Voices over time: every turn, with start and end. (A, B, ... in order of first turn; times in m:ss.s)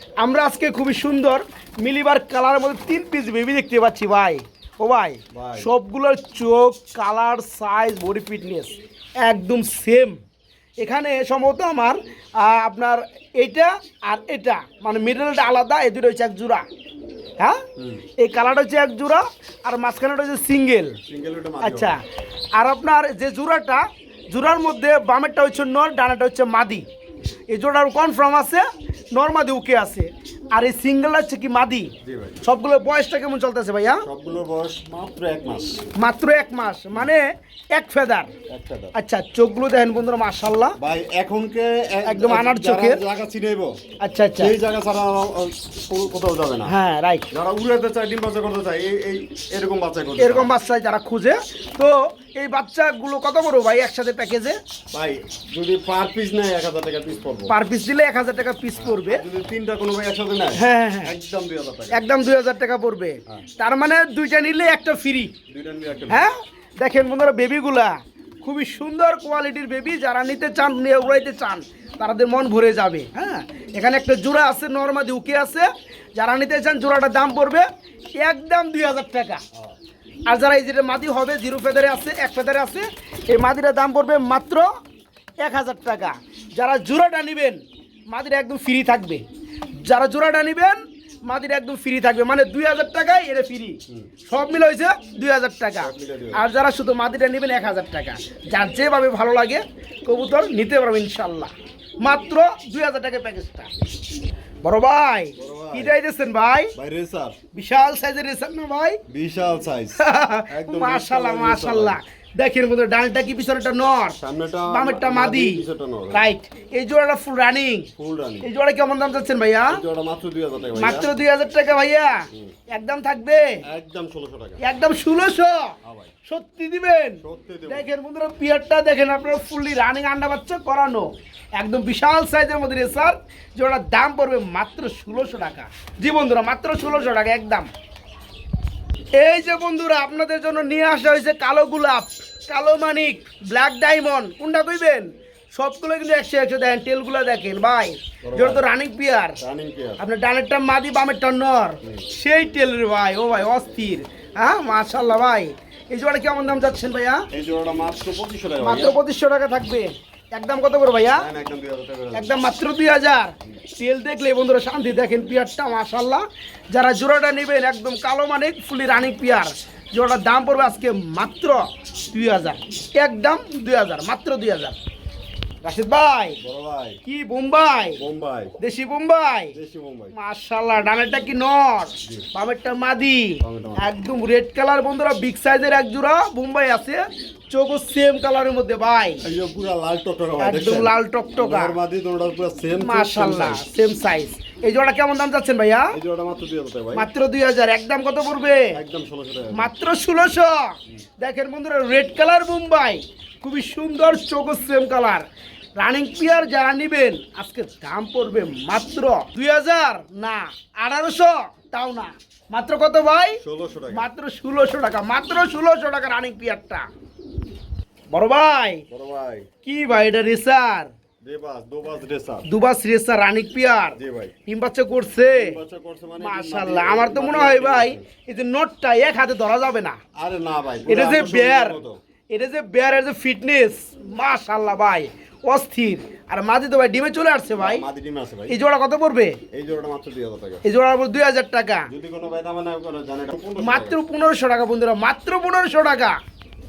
0:00.2-0:10.2 A
0:05.3-0:05.7 B
0:10.8-0:16.6 A
0:17.8-0:18.0 B
0:18.2-0:21.0 A
0:21.1-0:22.0 B
0:21.6-0:22.0 A
0:22.6-0:26.8 A
0:27.5-0:34.0 A
0:32.0-0:32.4 B
0:34.0-0:35.9 B
0:36.0-0:38.3 A
0:38.5-0:38.9 B
0:39.0-0:40.8 A
0:40.8-0:43.8 B
0:42.0-0:43.0 A
0:44.0-0:44.6 A
0:44.4-0:46.8 B
0:46.7-0:47.3 A
0:47.3-0:50.5 B
0:50.2-0:54.6 A
0:54.9-0:57.5 B
0:57.5-0:59.2 A
0:58.8-1:02.0 B
1:00.6-1:01.1 A
1:01.9-1:05.3 A
1:05.5-1:06.2 B
1:06.1-1:17.7 A
1:18.2-1:19.4 A
1:20.3-1:24.7 A
1:25.4-1:29.2 A
1:29.8-1:43.7 A
1:35.8-1:36.4 B
1:44.6-1:46.7 A
1:45.4-1:46.0 B
1:46.8-1:47.4 B
1:47.5-1:49.0 A
1:49.1-1:52.0 B
1:50.0-1:57.9 A
1:54.2-1:56.3 B
1:58.0-1:58.5 B
1:58.4-1:59.8 A
1:59.7-2:01.1 B
2:00.8-2:03.6 A
2:03.7-2:04.6 B
2:04.6-2:17.7 A
2:05.8-2:06.1 B
2:07.2-2:07.9 B
2:19.2-2:29.4 A
2:28.2-2:28.6 B
2:29.4-2:30.0 B
2:30.0-2:37.2 A
2:37.3-2:39.0 B
2:38.6-2:41.3 A
2:41.2-2:42.4 B
2:42.1-2:54.8 A
2:55.6-2:56.4 A
2:56.4-2:57.0 B
2:57.0-2:58.0 A
2:58.0-2:58.5 B
2:58.6-2:59.6 A
2:59.6-3:00.1 B
3:00.2-3:09.2 A
3:03.4-3:03.9 B
3:09.2-3:13.6 B
3:10.4-3:11.8 A
3:12.7-3:16.0 A
3:15.9-3:17.1 B
3:17.0-3:18.7 A
3:18.7-3:19.7 B
3:19.5-3:25.3 A
3:25.8-3:33.4 A
3:33.4-3:34.1 B
3:33.9-3:36.8 A
3:38.1-3:38.8 A
3:38.9-3:39.5 B
3:39.6-3:40.9 A
3:41.2-3:42.5 B
3:42.5-3:44.0 A
3:44.0-3:44.3 B
3:44.5-3:45.6 A
3:45.3-3:48.1 B
3:46.2-3:50.0 A
3:50.2-3:52.0 B
3:50.9-3:57.8 A
3:57.6-3:58.6 B
3:58.5-3:59.4 A
3:59.5-4:00.6 B
4:00.6-4:01.9 A
4:01.9-4:04.0 B
4:03.6-4:06.1 A